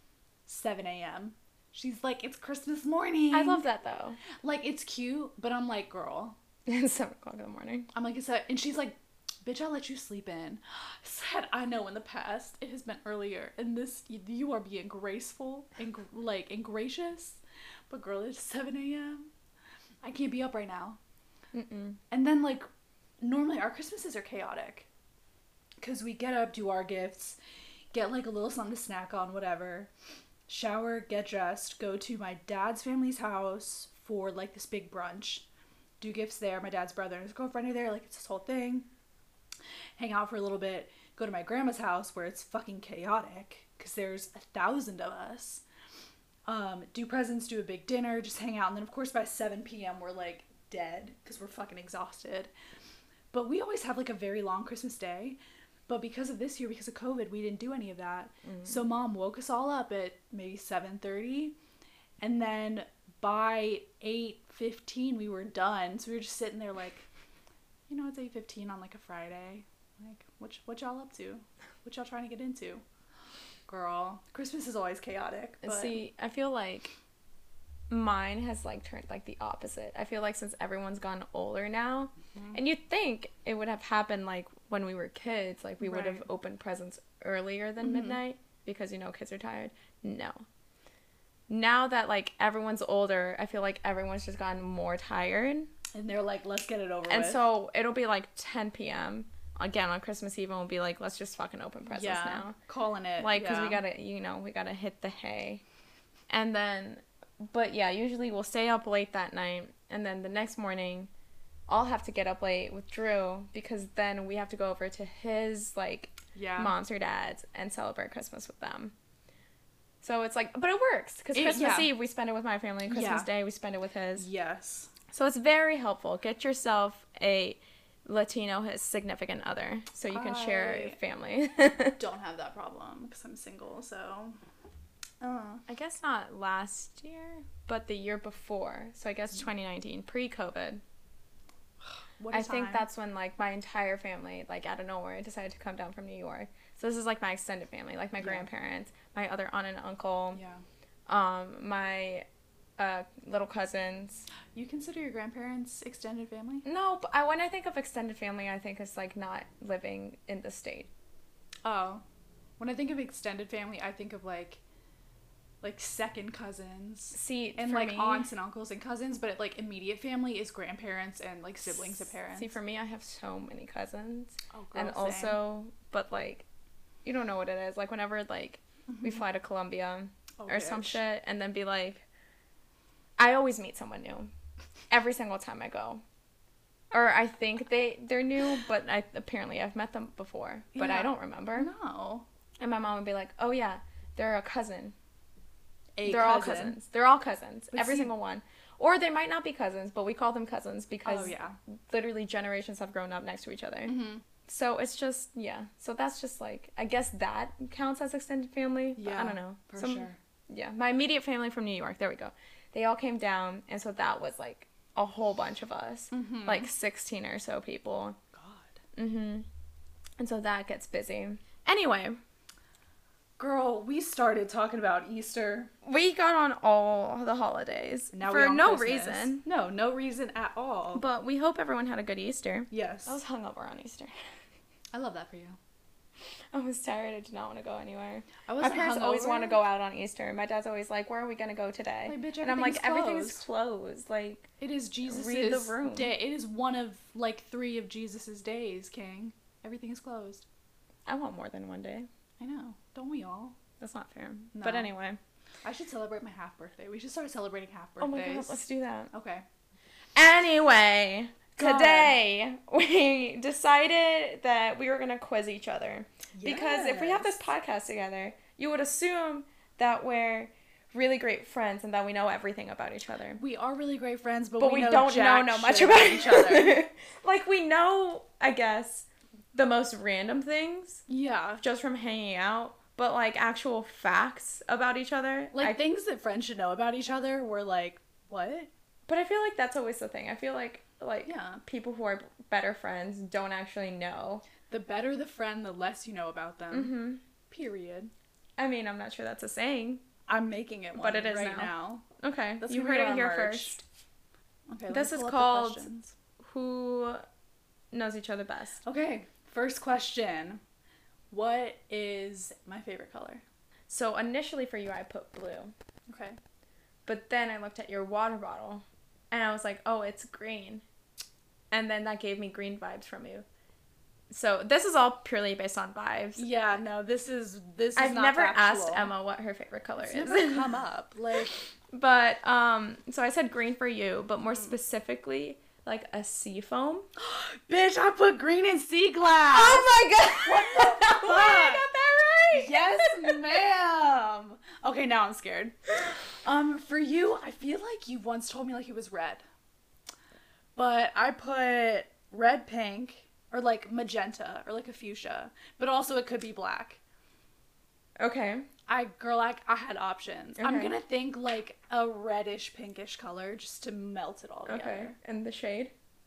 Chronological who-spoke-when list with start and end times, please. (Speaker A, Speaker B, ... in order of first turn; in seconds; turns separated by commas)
Speaker A: 0.5-3.6, Speaker B: 3.3-4.2, Speaker A: 4.4-6.4, Speaker B: 6.7-7.9, Speaker A: 7.9-19.3, Speaker A: 20.0-21.0, Speaker B: 21.5-22.0, Speaker A: 22.1-22.7, Speaker A: 23.2-24.9, Speaker A: 25.8-27.4, Speaker A: 27.9-29.9, Speaker A: 30.5-35.5, Speaker A: 36.0-38.9, Speaker A: 40.0-45.6, Speaker A: 46.5-52.5, Speaker A: 53.3-61.6, Speaker B: 58.5-58.8, Speaker A: 62.2-67.0, Speaker A: 67.9-72.8, Speaker A: 73.7-76.0, Speaker B: 75.6-76.9, Speaker B: 77.9-90.4, Speaker A: 85.8-86.2, Speaker A: 87.8-88.2, Speaker B: 91.5-95.7, Speaker A: 95.9-97.4, Speaker B: 97.1-102.6, Speaker A: 101.9-103.8, Speaker B: 103.2-105.6, Speaker B: 106.3-111.1, Speaker B: 111.7-118.9, Speaker A: 116.3-116.7, Speaker B: 120.0-124.3, Speaker A: 121.3-121.9, Speaker A: 122.9-123.3, Speaker A: 124.2-124.9, Speaker B: 125.1-132.0, Speaker A: 130.1-131.0, Speaker A: 132.0-134.3, Speaker A: 135.2-135.6, Speaker B: 135.7-140.8, Speaker A: 142.2-142.9, Speaker B: 142.3-150.4, Speaker A: 148.2-148.5, Speaker A: 150.3-150.6, Speaker B: 151.1-152.3, Speaker B: 152.8-154.3, Speaker A: 154.5-156.7, Speaker B: 156.7-160.9, Speaker A: 161.7-162.0, Speaker A: 162.6-164.6, Speaker A: 165.6-172.6, Speaker B: 167.1-168.3, Speaker B: 172.3-176.4, Speaker A: 174.5-175.4, Speaker B: 177.1-182.0, Speaker A: 178.9-179.2, Speaker A: 180.4-181.0, Speaker B: 183.2-184.3, Speaker B: 184.9-186.0, Speaker B: 186.9-191.7, Speaker A: 190.8-192.2, Speaker B: 192.6-194.9, Speaker A: 196.0-196.8, Speaker B: 196.1-218.2, Speaker A: 197.7-198.1, Speaker A: 201.1-201.6, Speaker A: 203.9-204.2, Speaker A: 209.0-210.2, Speaker A: 216.1-216.7, Speaker A: 218.3-218.8, Speaker B: 219.0-219.5, Speaker B: 220.2-222.2, Speaker A: 223.4-225.7, Speaker B: 225.8-229.4, Speaker A: 228.1-231.0, Speaker B: 230.9-234.1, Speaker A: 232.7-233.2, Speaker A: 234.9-235.6, Speaker B: 236.5-244.5, Speaker A: 238.5-239.6, Speaker A: 242.1-243.4, Speaker A: 244.6-250.4, Speaker B: 245.1-246.2, Speaker B: 251.1-252.1, Speaker A: 252.4-253.6, Speaker B: 253.8-255.2, Speaker A: 254.6-254.9, Speaker A: 255.6-258.6, Speaker B: 258.0-259.1, Speaker A: 259.1-259.5, Speaker B: 260.1-273.4, Speaker A: 261.6-262.2, Speaker A: 266.4-267.4, Speaker A: 273.4-276.8, Speaker B: 274.6-281.1, Speaker A: 281.1-281.6, Speaker B: 281.6-285.8, Speaker A: 285.5-288.7, Speaker B: 289.1-294.4, Speaker A: 291.3-291.6, Speaker A: 294.7-296.9, Speaker B: 296.7-297.2, Speaker A: 297.5-298.1, Speaker B: 298.6-300.0, Speaker A: 300.3-302.1, Speaker B: 300.9-303.8, Speaker A: 302.6-303.8, Speaker A: 304.7-306.1, Speaker B: 304.9-305.9, Speaker B: 306.4-307.2, Speaker B: 307.9-308.8, Speaker A: 308.8-310.6, Speaker A: 311.3-313.4, Speaker B: 313.9-315.7, Speaker A: 316.1-316.4, Speaker B: 317.1-320.8, Speaker B: 321.7-323.5, Speaker B: 324.3-326.5, Speaker A: 326.4-329.1, Speaker B: 328.0-330.7, Speaker A: 330.0-331.6, Speaker B: 331.9-337.1, Speaker A: 337.2-341.9, Speaker B: 339.5-343.5, Speaker A: 342.5-349.4, Speaker A: 350.8-357.0, Speaker B: 358.2-358.7, Speaker A: 358.9-365.1, Speaker B: 360.6-361.0, Speaker B: 364.7-365.9